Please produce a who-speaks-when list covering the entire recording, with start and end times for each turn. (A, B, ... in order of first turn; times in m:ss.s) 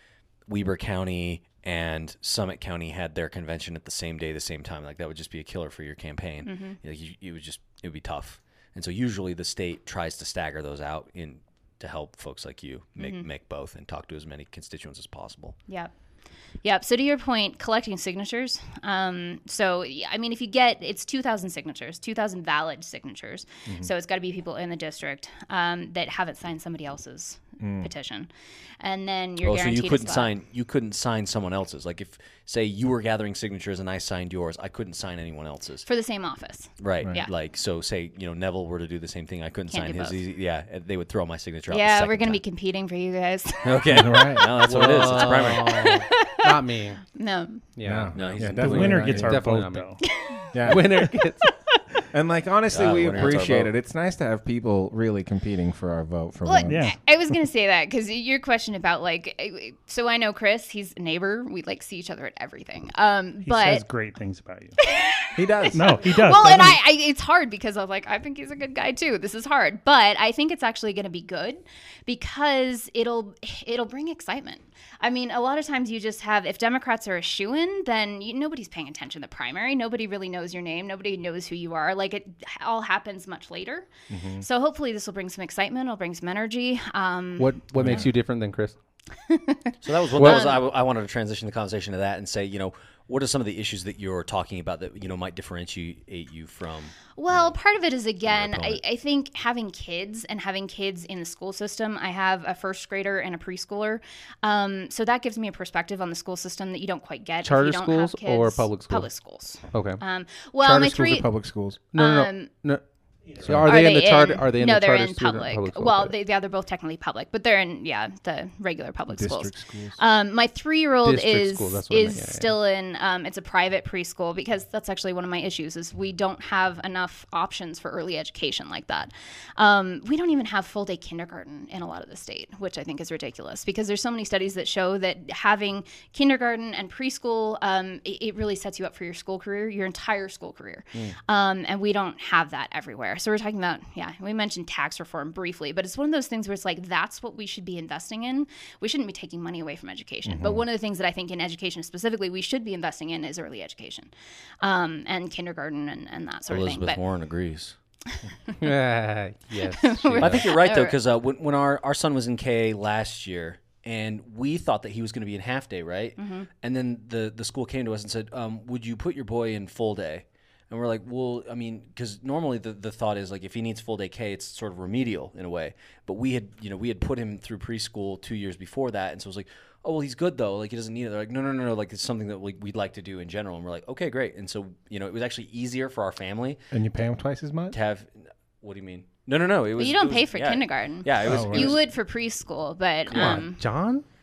0:00.5-0:15.6 A
0:06.4-0:06.8 B
0:13.0-0:13.2 B
0:16.6-0:30.3 B
0:27.6-0:27.9 C
0:29.4-0:35.8 A
0:35.8-0:37.3 B
0:36.8-0:42.4 A
0:39.7-0:40.2 B
0:41.7-0:44.1 B
0:43.6-0:46.0 A
0:43.9-0:44.5 C
0:44.6-0:47.0 D
0:45.5-0:46.5 B
0:47.0-0:47.6 B
0:47.8-0:50.0 D
0:47.8-0:49.4 C
0:48.1-0:48.9 A
0:48.6-0:50.1 E
0:50.0-0:50.5 B
0:50.5-0:51.1 C
0:50.6-0:51.5 D
0:51.1-0:51.5 B
0:52.1-0:56.8 C
0:52.7-0:53.7 A
0:56.4-1:03.8 B
0:56.7-0:57.0 E
1:03.4-1:04.8 E
1:04.8-1:23.9 B
1:05.4-1:06.0 C
1:05.7-1:06.8 E
1:24.1-1:24.4 C
1:24.4-1:27.6 B
1:27.4-1:28.8 D
1:27.8-1:28.1 C
1:29.3-1:30.6 B
1:29.8-1:37.5 A
1:30.2-1:30.5 D
1:37.2-1:51.3 B
1:38.2-1:38.8 A
1:47.4-1:49.1 D
1:49.7-1:50.0 D
1:50.6-1:51.8 C
1:50.7-1:51.2 D
1:51.9-1:52.8 D
1:51.9-1:52.5 B
1:53.4-1:56.1 D
1:53.4-1:53.8 C
1:53.6-2:34.1 B
1:59.1-2:00.0 C
2:01.0-2:02.5 D
2:30.3-2:30.6 C
2:34.6-2:37.0 B
2:36.5-2:37.8 A
2:38.6-2:40.5 D
2:39.6-2:41.0 B
2:40.2-3:06.6 A
2:46.2-2:46.5 B
3:06.7-3:07.8 C
3:07.7-3:11.8 A
3:09.8-3:13.6 B
3:11.2-3:11.8 C
3:13.1-3:14.0 D
3:13.1-3:13.4 A